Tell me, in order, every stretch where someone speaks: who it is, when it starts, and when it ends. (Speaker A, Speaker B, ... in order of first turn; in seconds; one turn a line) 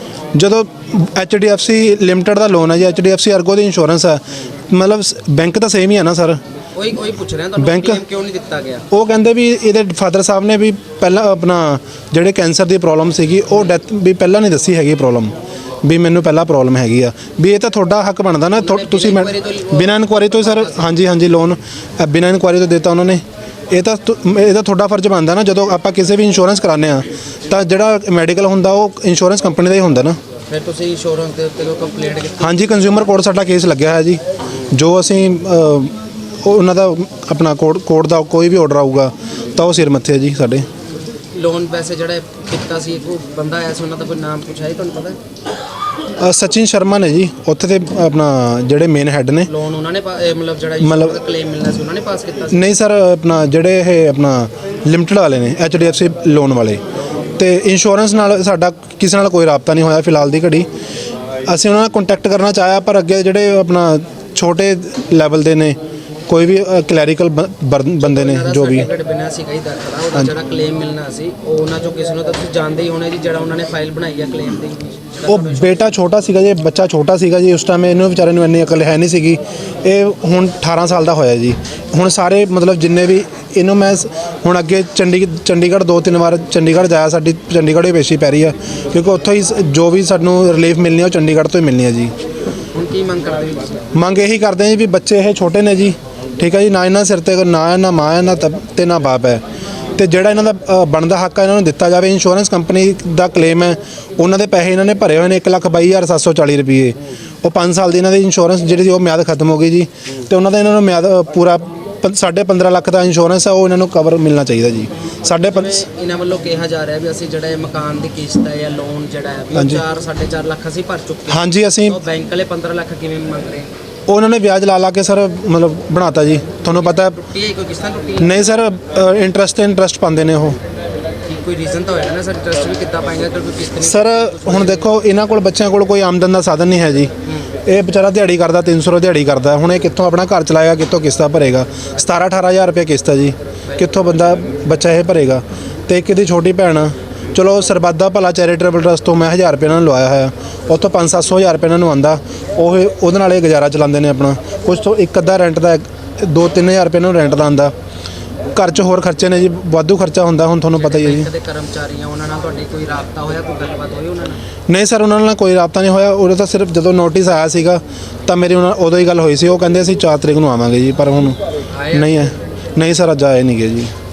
Speaker A: 0.3-6.4
Speaker B: 6.7-8.8
Speaker A: 7.6-7.9
Speaker A: 8.9-19.0
Speaker B: 18.5-21.1
Speaker A: 19.9-30.1
Speaker B: 30.5-33.1
Speaker A: 32.5-34.2
Speaker A: 34.7-40.6
Speaker B: 41.3-45.2
Speaker A: 46.2-49.5
Speaker B: 49.4-52.7
Speaker A: 52.6-56.8
Speaker A: 57.4-60.7
Speaker A: 61.5-65.8
Speaker A: 66.3-68.8
Speaker B: 68.0-75.9
Speaker A: 75.3-92.1
Speaker B: 92.7-94.0
Speaker A: 94.0-99.4
Speaker A: 100.0-115.6
Speaker B: 115.3-123.7
Speaker A: 121.4-121.9
Speaker A: 124.1-127.0
Speaker B: 126.5-128.6
Speaker A: 128.5-130.6
Speaker B: 131.2-135.0
Speaker A: 133.9-137.1
Speaker B: 137.2-137.6
Speaker A: 137.7-143.3
Speaker B: 143.7-144.1
Speaker A: 143.9-157.7
Speaker A: 158.5-161.0
Speaker B: 160.7-164.4
Speaker A: 164.7-171.4
Speaker B: 171.7-172.3
Speaker A: 172.0-172.2
Speaker A: 172.8-173.9